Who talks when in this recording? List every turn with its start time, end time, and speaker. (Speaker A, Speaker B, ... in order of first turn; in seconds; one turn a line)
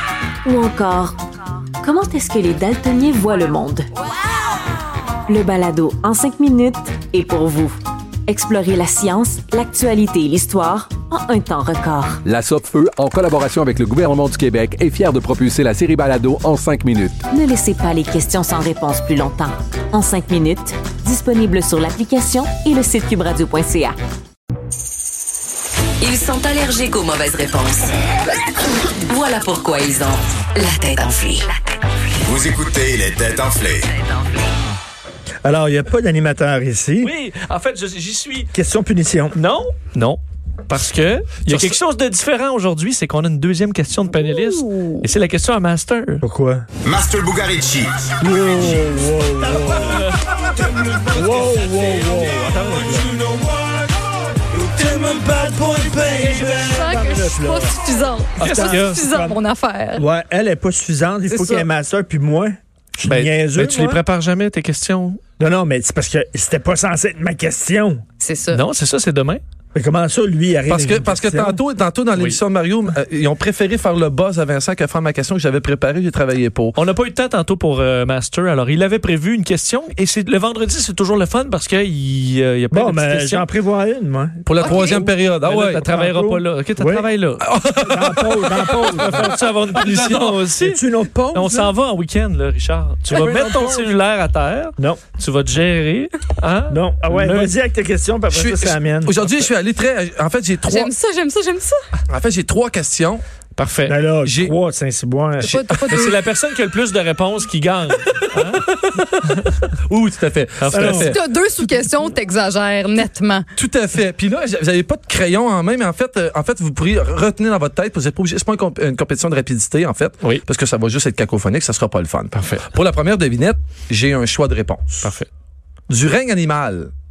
Speaker A: 0.4-1.2
Speaker A: 1.8-3.9
Speaker A: 5.3-7.8
Speaker A: 8.3-12.2
Speaker B: 12.2-17.2
Speaker A: 17.3-24.0
Speaker C: 26.0-27.9
Speaker C: 29.1-31.5
Speaker D: 32.2-33.9
Speaker E: 35.4-37.1
Speaker F: 37.0-38.5
Speaker E: 38.5-39.4
Speaker F: 39.3-46.2
Speaker E: 46.2-46.7
Speaker D: 46.9-48.1
Speaker E: 48.2-50.1
Speaker F: 49.9-50.3
Speaker E: 50.8-53.4
Speaker E: 54.5-57.8
Speaker G: 56.7-60.0
Speaker E: 58.4-59.4
Speaker F: 58.4-59.1
Speaker E: 60.0-64.0
Speaker G: 61.3-61.7
Speaker F: 63.0-65.2
Speaker E: 65.4-68.0
Speaker G: 68.2-68.6
Speaker F: 68.5-69.4
Speaker E: 69.8-71.6
Speaker H: 70.7-76.8
Speaker F: 72.1-72.4
Speaker F: 76.8-83.5
Speaker E: 82.7-84.6
Speaker H: 84.5-85.8
Speaker G: 84.6-85.1
Speaker F: 85.4-87.4
Speaker E: 85.8-89.4
Speaker H: 87.6-89.0
Speaker F: 88.9-90.8
Speaker H: 89.8-90.3
Speaker E: 90.5-91.7
Speaker F: 91.3-97.6
Speaker E: 93.1-93.8
Speaker E: 96.7-99.3
Speaker H: 98.3-100.9
Speaker G: 100.6-101.8
Speaker H: 102.1-103.2
Speaker F: 103.6-104.0
Speaker E: 103.9-105.8
Speaker H: 104.2-104.5
Speaker G: 105.4-106.2
Speaker F: 105.8-108.7
Speaker H: 108.6-109.1
Speaker F: 109.2-109.7
Speaker H: 109.9-111.1
Speaker F: 110.6-111.1
Speaker E: 110.7-111.1
Speaker G: 111.1-113.5
Speaker H: 113.6-125.1
Speaker F: 122.3-122.7
Speaker F: 125.0-125.3
Speaker H: 125.9-126.9